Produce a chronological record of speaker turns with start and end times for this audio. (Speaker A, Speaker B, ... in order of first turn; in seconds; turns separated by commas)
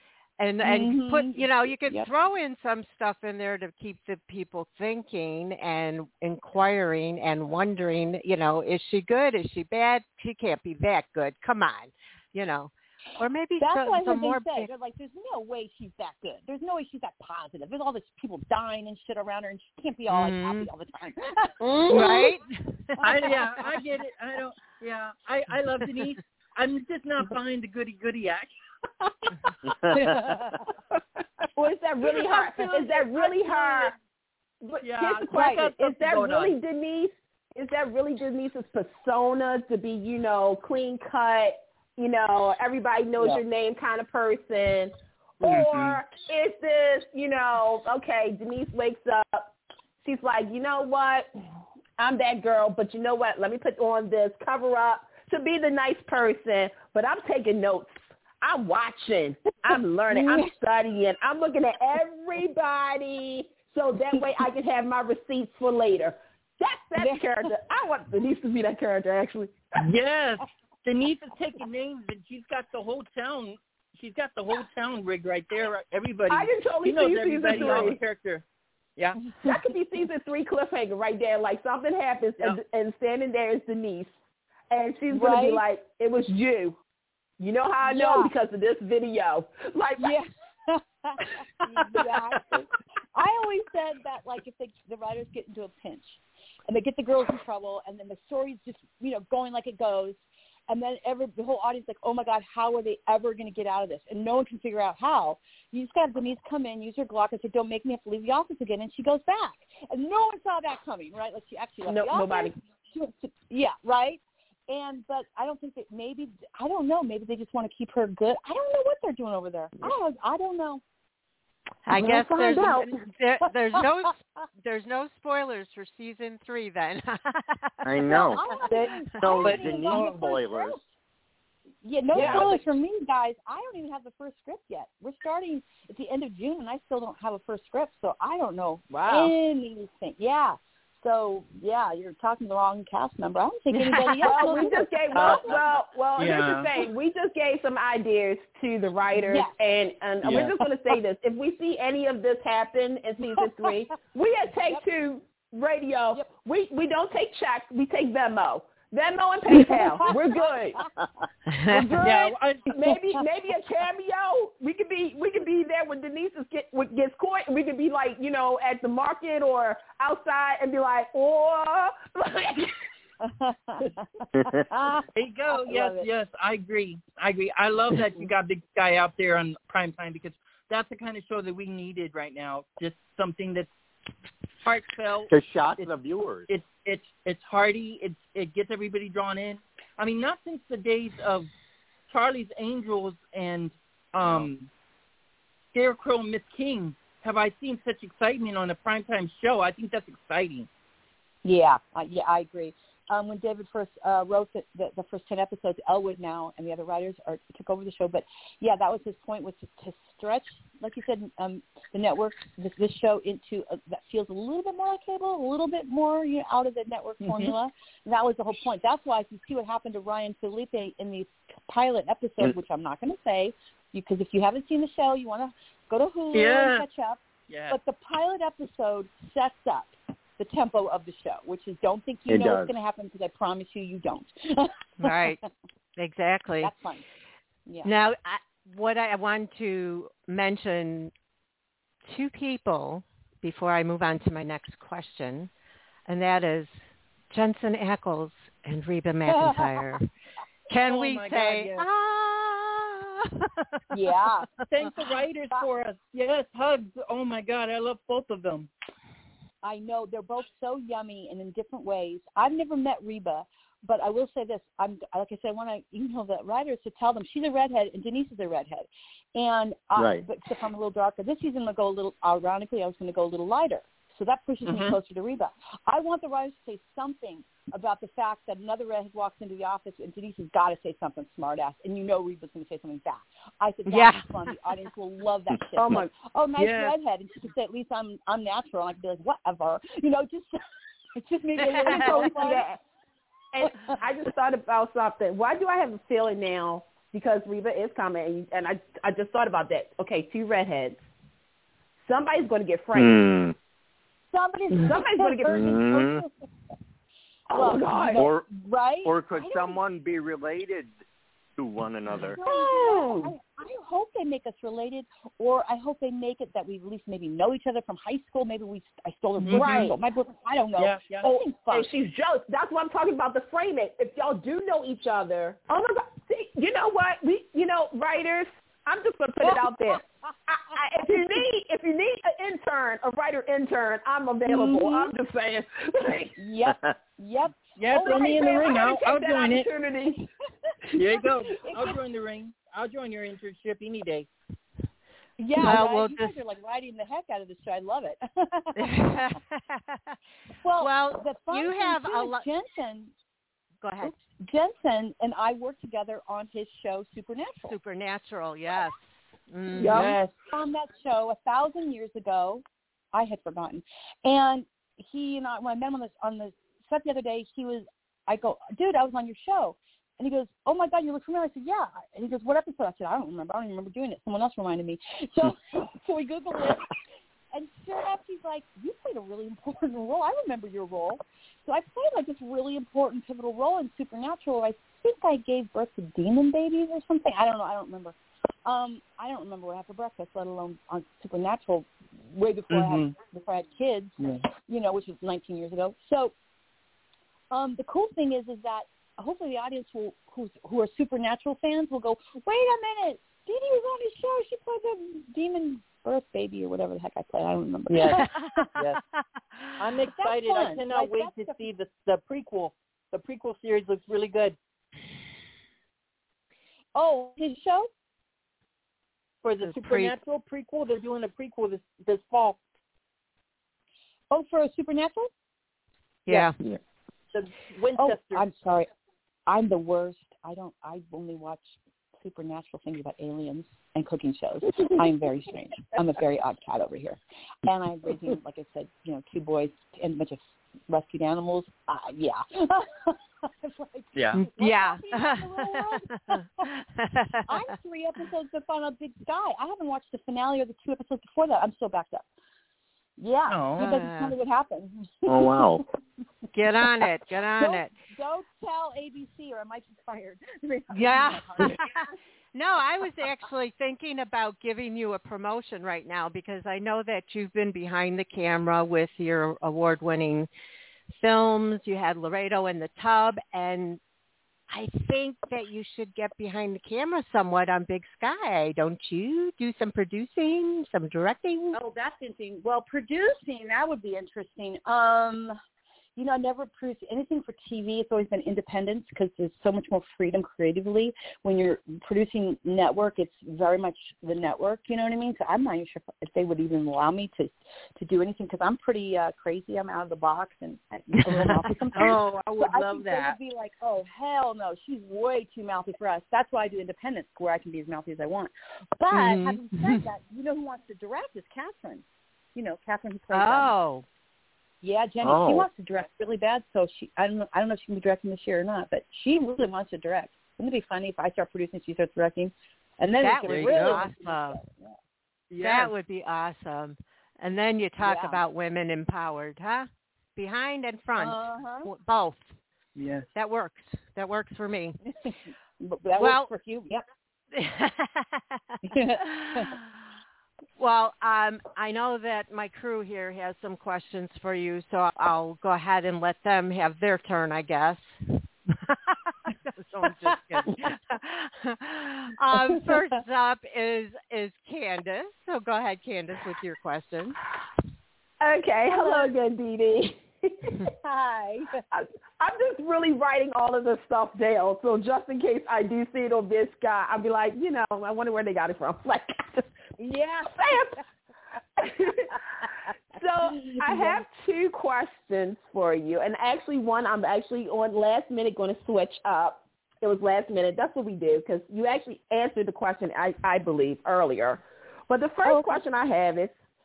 Speaker A: 0.4-14.7, Speaker B: 0.6-2.1, Speaker B: 13.6-22.3, Speaker A: 20.1-20.7, Speaker C: 21.6-22.3, Speaker A: 21.9-23.0, Speaker D: 23.0-28.5, Speaker D: 29.4-30.2, Speaker E: 29.7-30.2, Speaker B: 29.9-30.5, Speaker C: 31.6-33.9, Speaker D: 32.2-33.9, Speaker C: 34.6-49.5, Speaker D: 34.8-36.5, Speaker D: 45.4-46.0, Speaker C: 50.0-51.3, Speaker C: 52.0-69.6, Speaker B: 60.1-60.5, Speaker B: 67.0-67.5, Speaker D: 69.8-78.4, Speaker C: 76.3-78.0, Speaker C: 79.4-84.1, Speaker C: 84.7-86.8, Speaker B: 85.1-85.6, Speaker C: 87.4-90.2, Speaker B: 87.8-88.3, Speaker B: 90.0-120.8, Speaker C: 91.9-92.4, Speaker C: 111.8-112.5, Speaker A: 121.8-128.6, Speaker B: 121.9-122.9, Speaker E: 127.8-128.4, Speaker B: 128.1-130.8, Speaker C: 128.7-128.9, Speaker E: 129.2-130.8, Speaker D: 129.4-130.1, Speaker B: 131.8-145.6, Speaker C: 132.1-132.6, Speaker C: 138.9-139.3, Speaker C: 144.2-160.8, Speaker D: 145.1-145.6, Speaker D: 146.2-146.7, Speaker B: 149.1-149.5, Speaker D: 150.2-150.5, Speaker B: 153.4-153.7, Speaker B: 159.5-160.9, Speaker A: 161.5-161.8, Speaker C: 161.7-172.8, Speaker D: 161.9-162.9, Speaker B: 173.2-176.1, Speaker E: 174.3-174.6, Speaker D: 175.1-183.7, Speaker D: 184.6-185.9, Speaker E: 185.3-186.5, Speaker D: 186.5-191.5, Speaker D: 192.1-194.7, Speaker D: 195.7-200.7, Speaker B: 201.4-235.5, Speaker D: 217.2-217.5, Speaker D: 226.3-226.8, Speaker D: 227.5-227.8, Speaker E: 232.3-232.7, Speaker A: 235.0-235.4, Speaker A: 236.0-236.7, Speaker B: 236.6-237.0, Speaker A: 237.8-241.1, Speaker A: 242.0-245.5, Speaker A: 246.1-250.0, Speaker B: 249.3-249.9, Speaker A: 250.7-253.8, Speaker D: 250.8-251.8, Speaker B: 253.9-254.5, Speaker D: 254.7-258.7, Speaker B: 259.6-290.6, Speaker E: 270.0-270.2, Speaker A: 283.9-284.2, Speaker C: 285.8-286.1, Speaker D: 286.6-286.9, Speaker B: 291.1-292.6, Speaker C: 291.6-292.8, Speaker C: 293.5-301.0, Speaker B: 293.6-294.0, Speaker C: 302.1-303.2, Speaker E: 302.9-303.5, Speaker B: 304.3-306.3, Speaker C: 304.8-305.7, Speaker E: 305.5-306.2, Speaker C: 307.5-308.2, Speaker B: 307.5-309.8, Speaker E: 308.1-308.5, Speaker E: 309.0-310.9, Speaker E: 311.6-312.4, Speaker B: 312.2-321.9, Speaker C: 312.4-313.3, Speaker D: 319.4-319.9, Speaker C: 319.5-319.9, Speaker D: 320.8-321.3, Speaker C: 321.2-336.4, Speaker B: 329.4-330.0, Speaker B: 330.7-331.4, Speaker B: 334.4-335.1, Speaker B: 336.4-338.8, Speaker D: 337.8-339.7, Speaker C: 337.9-340.3, Speaker D: 340.9-344.3, Speaker B: 341.6-341.9, Speaker B: 345.4-349.0, Speaker A: 345.6-346.3, Speaker A: 348.8-350.1, Speaker B: 350.6-353.1, Speaker A: 350.8-352.4, Speaker A: 353.8-354.1, Speaker B: 354.0-357.8, Speaker A: 357.7-360.0, Speaker C: 359.8-360.2, Speaker D: 359.9-360.3, Speaker B: 360.5-376.9, Speaker B: 377.5-394.1, Speaker D: 392.7-393.1, Speaker D: 394.2-394.5, Speaker B: 394.7-396.3, Speaker B: 397.5-408.3, Speaker D: 407.9-409.0, Speaker A: 408.1-409.8, Speaker D: 409.8-414.6, Speaker B: 410.0-411.6, Speaker B: 416.9-417.9, Speaker D: 419.4-422.6, Speaker A: 419.6-420.1, Speaker B: 424.3-425.3, Speaker A: 426.3-426.5, Speaker D: 427.3-428.4, Speaker B: 427.9-428.9, Speaker B: 429.5-446.6, Speaker D: 444.1-444.4, Speaker A: 444.3-447.5, Speaker B: 447.5-452.2, Speaker B: 453.2-455.8, Speaker D: 453.5-454.0, Speaker A: 453.8-454.3, Speaker E: 455.3-455.8, Speaker A: 456.5-457.9, Speaker B: 457.6-462.1, Speaker A: 460.9-470.5, Speaker A: 471.1-474.0, Speaker A: 474.7-481.8, Speaker B: 481.7-485.6, Speaker B: 486.1-513.8, Speaker D: 501.9-503.3, Speaker A: 509.1-509.6, Speaker A: 513.3-514.0, Speaker B: 514.8-524.9, Speaker E: 515.2-515.7, Speaker A: 523.2-524.6, Speaker D: 523.4-524.0, Speaker D: 525.5-525.9, Speaker A: 525.6-532.5, Speaker B: 528.0-528.4, Speaker B: 531.2-531.9, Speaker D: 533.0-533.3, Speaker A: 533.3-535.0, Speaker B: 535.2-537.0, Speaker A: 536.2-536.5, Speaker A: 537.5-539.9, Speaker B: 538.8-539.8, Speaker A: 540.8-557.4, Speaker C: 558.4-560.8, Speaker B: 558.9-559.3, Speaker B: 560.9-561.8, Speaker C: 561.9-569.7, Speaker B: 570.0-570.8, Speaker C: 570.5-571.0, Speaker C: 571.8-572.4, Speaker C: 573.1-586.5, Speaker B: 573.4-574.2, Speaker B: 585.4-585.8